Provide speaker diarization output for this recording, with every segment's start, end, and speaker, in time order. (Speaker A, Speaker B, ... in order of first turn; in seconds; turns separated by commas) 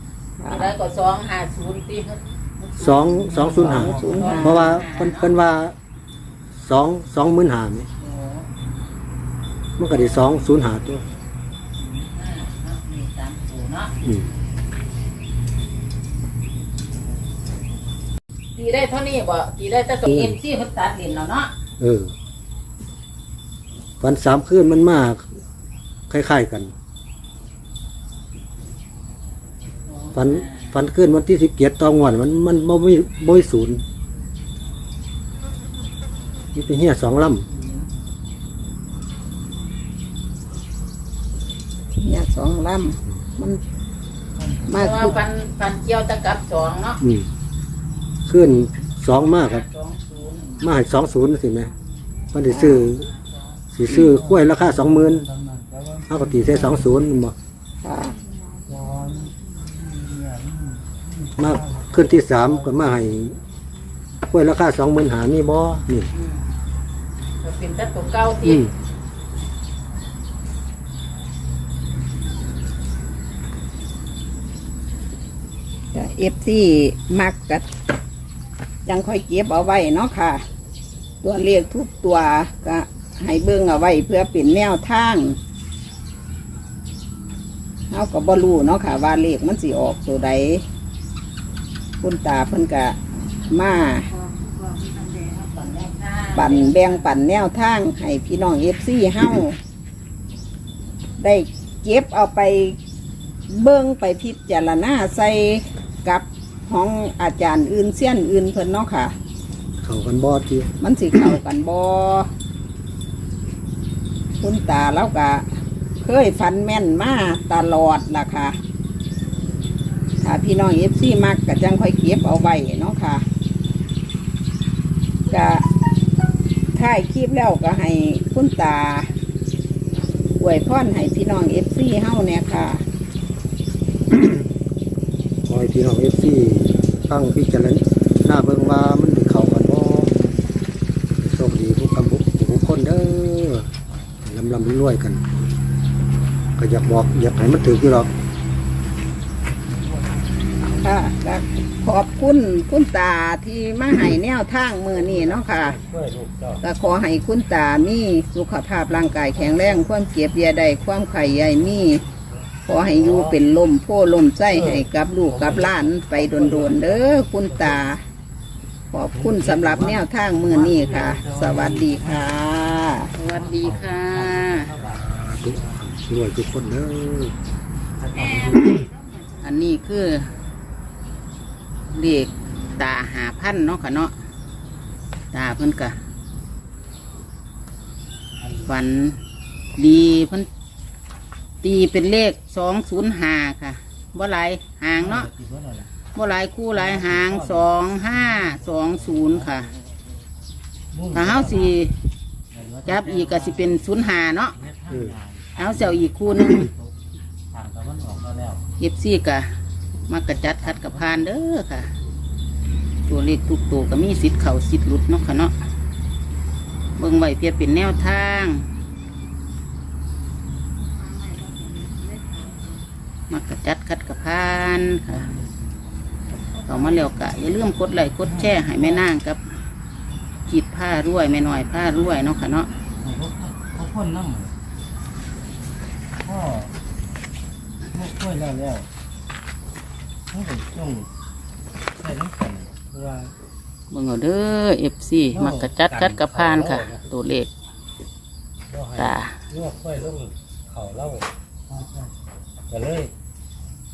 Speaker A: 0.4-0.8, Speaker B: 0.5-5.3, Speaker C: 2.8-5.8, Speaker A: 3.4-4.7, Speaker D: 3.8-4.1, Speaker C: 6.6-7.9, Speaker B: 8.0-8.5, Speaker C: 9.8-11.0, Speaker B: 11.8-13.9, Speaker C: 14.0-14.3, Speaker B: 18.6-21.5, Speaker C: 20.1-20.4, Speaker C: 21.8-22.1, Speaker C: 24.0-25.3, Speaker C: 26.1-26.7, Speaker B: 29.9-30.7, Speaker C: 30.1-33.8, Speaker C: 36.5-37.5, Speaker B: 37.6-37.9, Speaker A: 42.0-43.6, Speaker D: 44.4-44.8, Speaker A: 44.7-45.1, Speaker B: 44.8-47.0, Speaker C: 47.0-47.3, Speaker C: 48.3-49.6, Speaker B: 49.3-50.6, Speaker C: 50.6-51.7, Speaker C: 52.3-53.1, Speaker A: 52.5-52.9, Speaker C: 53.7-55.3, Speaker D: 55.4-56.1, Speaker C: 56.1-57.3, Speaker A: 57.8-58.2, Speaker D: 58.7-61.4, Speaker C: 61.4-63.4, Speaker C: 64.2-66.1, Speaker B: 66.1-66.4, Speaker B: 67.4-68.7, Speaker C: 68.5-68.7, Speaker A: 75.9-77.7, Speaker A: 78.9-80.4, Speaker A: 81.2-85.4, Speaker A: 87.9-90.6, Speaker A: 92.0-94.1, Speaker B: 94.2-97.1, Speaker A: 96.3-99.6, Speaker A: 101.2-102.8, Speaker A: 103.5-109.1, Speaker C: 109.8-110.7, Speaker A: 110.8-112.3, Speaker A: 114.4-115.5, Speaker A: 116.0-118.6, Speaker A: 120.2-123.2, Speaker A: 125.3-125.6, Speaker A: 126.8-129.1, Speaker A: 130.4-132.8, Speaker C: 135.5-140.1, Speaker C: 141.2-143.7, Speaker C: 144.2-145.2, Speaker C: 146.6-148.1, Speaker A: 150.8-155.8, Speaker D: 155.0-156.6, Speaker A: 156.6-162.0, Speaker A: 162.7-168.0, Speaker D: 162.9-163.3, Speaker D: 164.6-167.3, Speaker A: 168.9-173.1, Speaker D: 169.2-172.3, Speaker B: 173.1-174.7, Speaker D: 173.3-175.0, Speaker C: 174.9-177.3, Speaker D: 178.0-178.9, Speaker B: 179.3-180.3, Speaker B: 181.9-184.1, Speaker B: 185.3-186.0, Speaker B: 188.5-189.2, Speaker B: 189.8-190.5, Speaker B: 191.6-195.3, Speaker D: 195.0-195.9, Speaker B: 196.1-199.7, Speaker D: 196.8-199.5, Speaker D: 200.9-201.8, Speaker B: 201.1-202.0, Speaker D: 202.5-203.8, Speaker B: 202.8-204.6, Speaker D: 204.6-206.9, Speaker C: 204.9-205.2, Speaker B: 205.6-206.7, Speaker D: 207.5-208.6, Speaker B: 208.8-209.5, Speaker B: 210.1-211.9, Speaker D: 210.6-211.2, Speaker B: 213.1-215.5, Speaker B: 217.0-218.7, Speaker B: 221.8-222.3, Speaker B: 223.3-225.3, Speaker B: 226.6-229.4, Speaker D: 228.5-228.9, Speaker B: 230.5-232.7, Speaker D: 233.0-234.6, Speaker D: 236.2-236.7, Speaker D: 237.9-238.9, Speaker D: 240.3-241.1, Speaker D: 242.0-243.3, Speaker B: 243.9-247.5, Speaker D: 245.3-247.0, Speaker D: 248.7-251.3, Speaker B: 248.9-249.4, Speaker D: 252.7-253.1